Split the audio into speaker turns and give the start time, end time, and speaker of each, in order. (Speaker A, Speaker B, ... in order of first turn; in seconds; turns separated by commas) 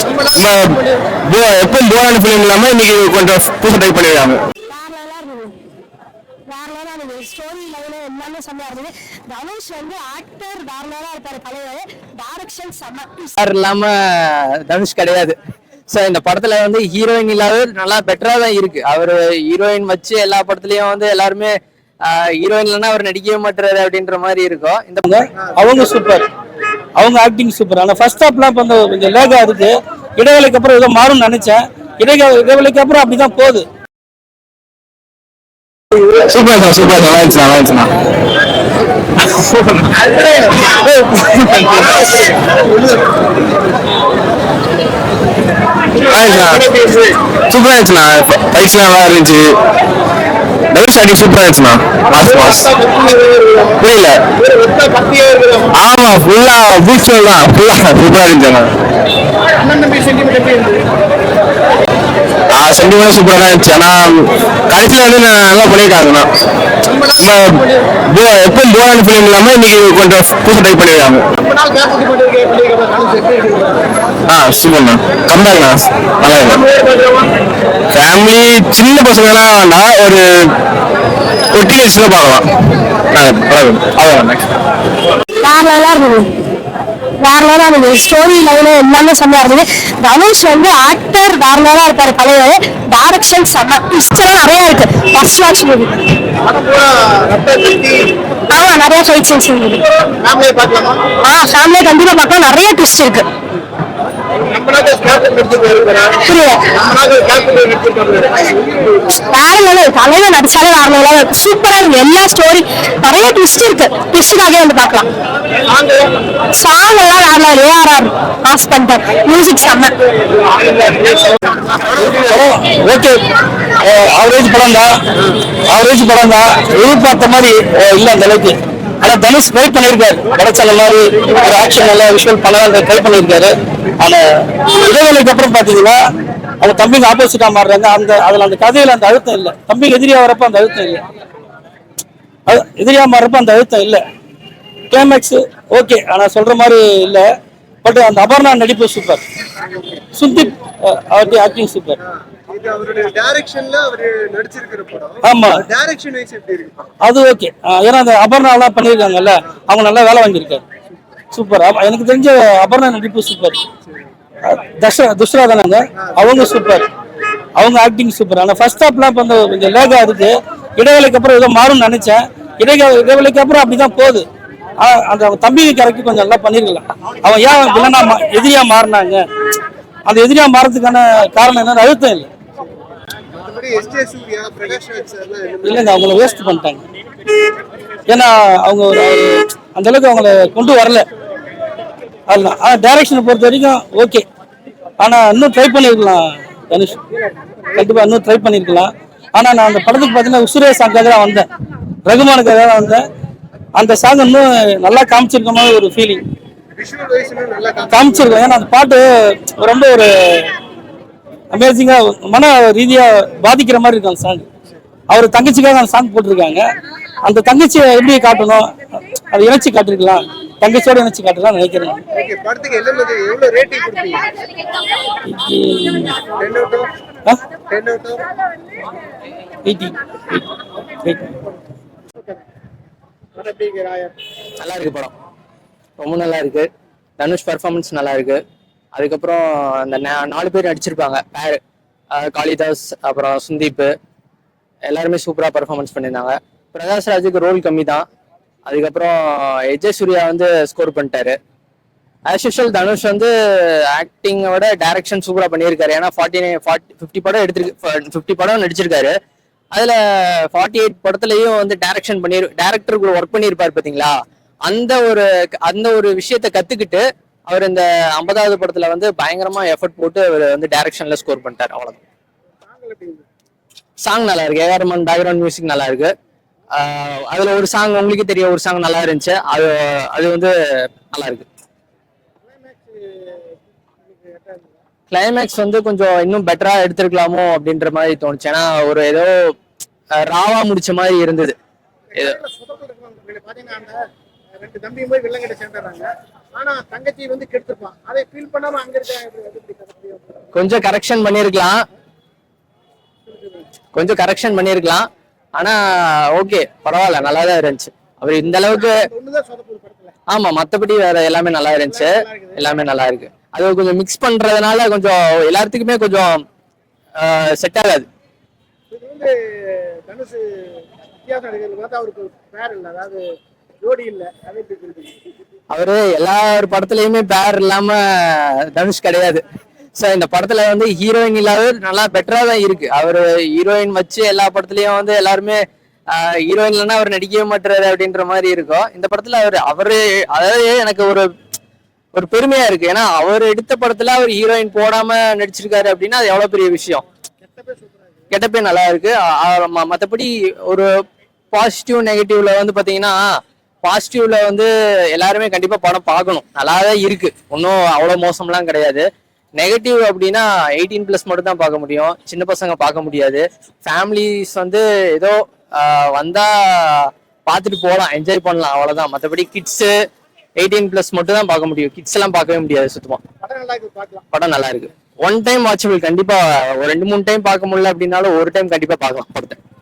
Speaker A: 0.3-4.4, Speaker B: 4.7-5.5, Speaker B: 6.5-13.4, Speaker C: 13.4-15.3, Speaker C: 15.9-25.0, Speaker D: 25.1-26.2, Speaker D: 27.0-33.7, Speaker A: 36.1-37.9, Speaker A: 39.3-42.4, Speaker E: 42.6-43.1, Speaker A: 46.0-46.8, Speaker E: 46.7-47.0, Speaker A: 47.5-49.5, Speaker A: 50.7-52.7, Speaker E: 52.3-53.7, Speaker A: 53.8-54.2, Speaker E: 54.5-55.7, Speaker A: 55.7-58.7, Speaker E: 59.6-60.9, Speaker A: 62.5-66.3, Speaker A: 67.2-71.2, Speaker E: 71.3-73.9, Speaker A: 74.3-76.7, Speaker A: 77.9-80.2, Speaker A: 81.5-82.5, Speaker A: 83.1-84.4, Speaker B: 85.4-86.3, Speaker B: 87.2-96.0, Speaker E: 96.4-98.1, Speaker B: 98.5-99.8, Speaker E: 99.9-101.1, Speaker B: 101.2-103.2, Speaker E: 104.5-106.2, Speaker B: 106.2-106.7, Speaker E: 106.8-109.0, Speaker B: 109.2-115.1, Speaker B: 116.5-120.0, Speaker D: 121.9-123.2, Speaker D: 123.8-124.9, Speaker D: 125.7-136.0, Speaker D: 136.6-141.0, Speaker D: 142.5-144.0, Speaker D: 144.9-147.3, Speaker D: 147.8-149.2, Speaker D: 150.2-152.0, Speaker E: 152.5-156.9, Speaker D: 155.2-155.6, Speaker D: 157.0-160.6, Speaker D: 161.3-163.6, Speaker D: 164.4-166.9, Speaker D: 167.6-174.2, Speaker D: 174.8-179.2, Speaker D: 180.1-182.3, Speaker E: 183.3-185.9, Speaker D: 185.6-186.8, Speaker D: 188.1-191.1, Speaker D: 192.3-194.2, Speaker D: 195.0-197.0, Speaker E: 197.1-197.9, Speaker D: 197.8-201.5, Speaker D: 202.1-203.0, Speaker D: 203.8-206.2, Speaker E: 206.8-208.4, Speaker D: 207.9-210.5, Speaker D: 211.5-214.5, Speaker D: 215.1-216.7, Speaker D: 217.2-222.0, Speaker E: 222.1-224.2, Speaker D: 225.3-226.2, Speaker E: 226.3-226.9, Speaker E: 227.7-228.3, Speaker D: 229.7-230.4, Speaker D: 231.0-231.3, Speaker E: 232.2-232.4, Speaker E: 233.4-234.2, Speaker C: 234.6-235.1, Speaker C: 236.0-236.7, Speaker C: 237.2-238.4, Speaker C: 238.9-241.6, Speaker C: 242.2-243.9, Speaker C: 244.9-248.1, Speaker C: 248.7-251.4, Speaker C: 252.3-259.1, Speaker C: 259.7-264.1, Speaker C: 264.7-272.0, Speaker E: 272.7-273.2, Speaker C: 274.0-276.1, Speaker C: 276.8-281.5, Speaker E: 282.4-284.8, Speaker C: 285.1-289.5, Speaker C: 290.2-291.5, Speaker E: 292.1-294.0, Speaker E: 294.6-300.5, Speaker C: 300.6-301.8, Speaker E: 303.3-303.7, Speaker C: 303.9-309.0, Speaker E: 308.7-310.1, Speaker C: 310.3-316.4, Speaker E: 311.9-312.6, Speaker C: 317.2-318.1, Speaker E: 318.9-323.2, Speaker E: 323.8-325.1, Speaker C: 325.7-329.4, Speaker C: 330.0-335.6, Speaker C: 336.1-341.3, Speaker C: 342.1-347.0, Speaker E: 347.4-348.2, Speaker C: 348.3-350.9, Speaker C: 351.5-353.2, Speaker C: 353.8-359.1, Speaker C: 359.6-369.9, Speaker C: 370.6-373.2, Speaker E: 373.4-374.2, Speaker C: 374.3-379.6